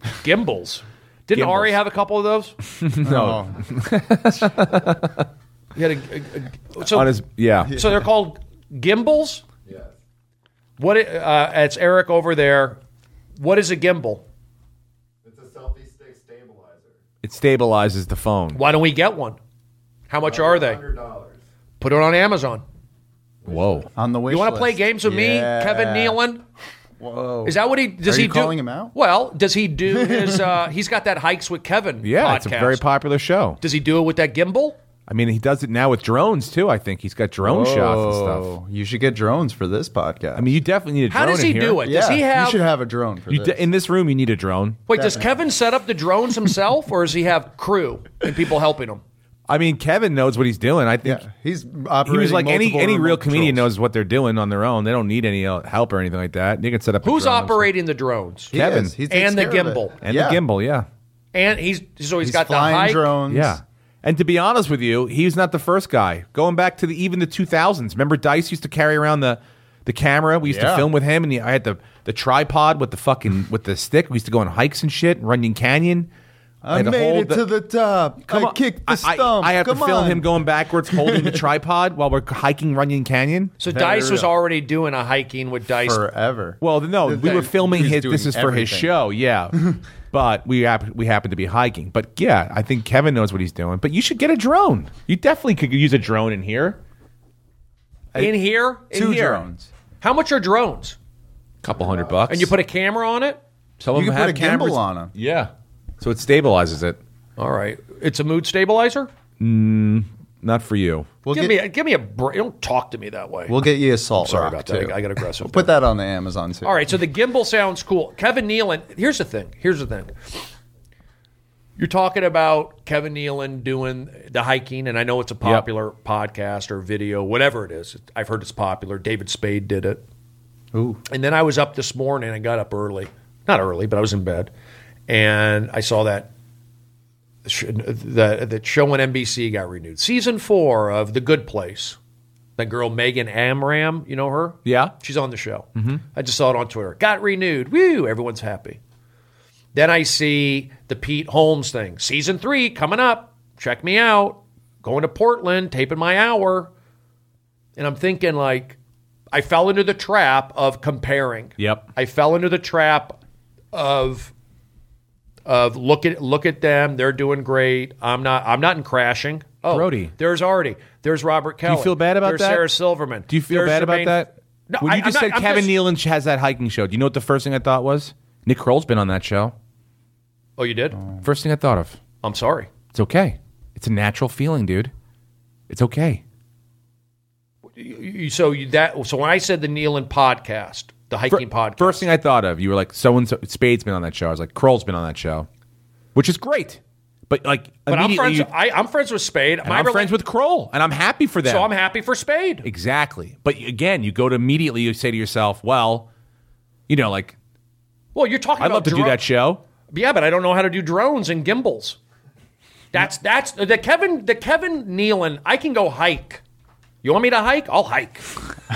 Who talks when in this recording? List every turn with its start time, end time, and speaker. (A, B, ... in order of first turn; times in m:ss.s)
0:00.2-0:02.6 A
0:01.3-0:01.8 B
0:02.7-0:05.3 B
0:03.0-0:03.7 C
0:05.7-0:09.4 A
0:06.8-0:07.8 B
0:07.6-0:08.0 C
0:09.6-0:10.0 D
0:10.8-0:12.8 A
0:13.4-0:14.2 A
0:15.2-0:17.0 D
0:17.2-0:18.6 B
0:18.5-0:19.4 A
0:20.1-0:20.8 A
0:20.2-0:21.4 D
0:21.8-0:22.6 A
0:23.4-0:23.9 D
0:23.4-0:23.9 B
0:23.9-0:26.2 C
0:24.3-0:26.4 A
0:27.0-0:28.9 C
0:27.4-0:32.8 A
0:29.9-0:30.5 C
0:32.0-0:33.6 B
0:33.6-0:34.8 A
0:35.1-0:38.5 B
0:37.4-0:40.6 C
0:40.3-0:41.8 B
0:41.1-0:42.6 A
0:41.8-0:43.6 C
0:43.3-0:44.8 B
0:44.9-0:49.0 A
0:44.9-0:45.3 C
0:49.5-0:51.2 B
0:51.0-0:53.7 C
0:52.0-0:57.7 B
0:57.0-0:58.5 A
0:58.5-1:00.4 C
0:58.5-0:59.0 B
0:59.1-0:59.9 A
1:00.0-1:00.8 B
1:01.3-1:03.1 A
1:02.2-1:03.6 C
1:03.3-1:16.1 B
1:10.4-1:10.9 C
1:16.6-1:21.5 C
1:16.7-1:17.4 B
1:18.2-1:23.6 B
1:23.6-1:26.0 A
1:23.7-1:24.3 C
1:25.8-1:28.9 C
1:26.6-1:36.8 B
1:38.2-1:38.9 A
1:38.9-1:39.7 C
1:38.9-1:39.4 B
1:40.0-1:41.0 A
1:41.6-1:42.5 B
1:42.3-1:43.4 A
1:43.8-1:45.5 B
1:43.9-1:45.1 C
1:46.0-1:47.0 B
1:47.4-1:49.1 A
1:49.4-1:51.1 B
1:51.2-1:51.6 C
1:51.3-1:53.6 A
1:53.5-1:56.8 C
1:54.2-1:55.7 A
1:56.6-2:00.4 A
2:01.8-2:10.0 A
2:10.7-2:11.0 C
2:11.1-2:14.5 A
2:15.1-2:16.3 A
2:17.4-2:22.0 A
2:22.6-2:28.8 A
2:24.6-2:24.9 B
2:25.8-2:26.0 B
2:29.7-2:36.7 A
2:37.8-2:38.8 A
2:39.3-2:43.2 A
2:41.6-2:41.8 B
2:43.7-2:44.3 A
2:45.4-2:55.8 A
2:49.7-2:50.1 B
2:51.6-2:52.7 B
2:53.3-2:59.5 B
3:00.6-3:01.0 A
3:01.2-3:02.0 B
3:02.2-3:02.7 A
3:02.9-3:04.9 B
3:05.7-3:06.2 B
3:07.8-3:12.0 A
3:11.3-3:15.5 B
3:16.1-3:18.5 B
3:17.9-3:20.1 A
3:19.6-3:21.7 B
3:21.4-3:22.6 A
3:22.6-3:26.1 B
3:26.9-3:27.3 B
3:28.1-3:29.2 A
3:28.6-3:29.6 B
3:29.9-3:32.0 A
3:32.9-3:36.4 A
3:37.0-3:38.3 A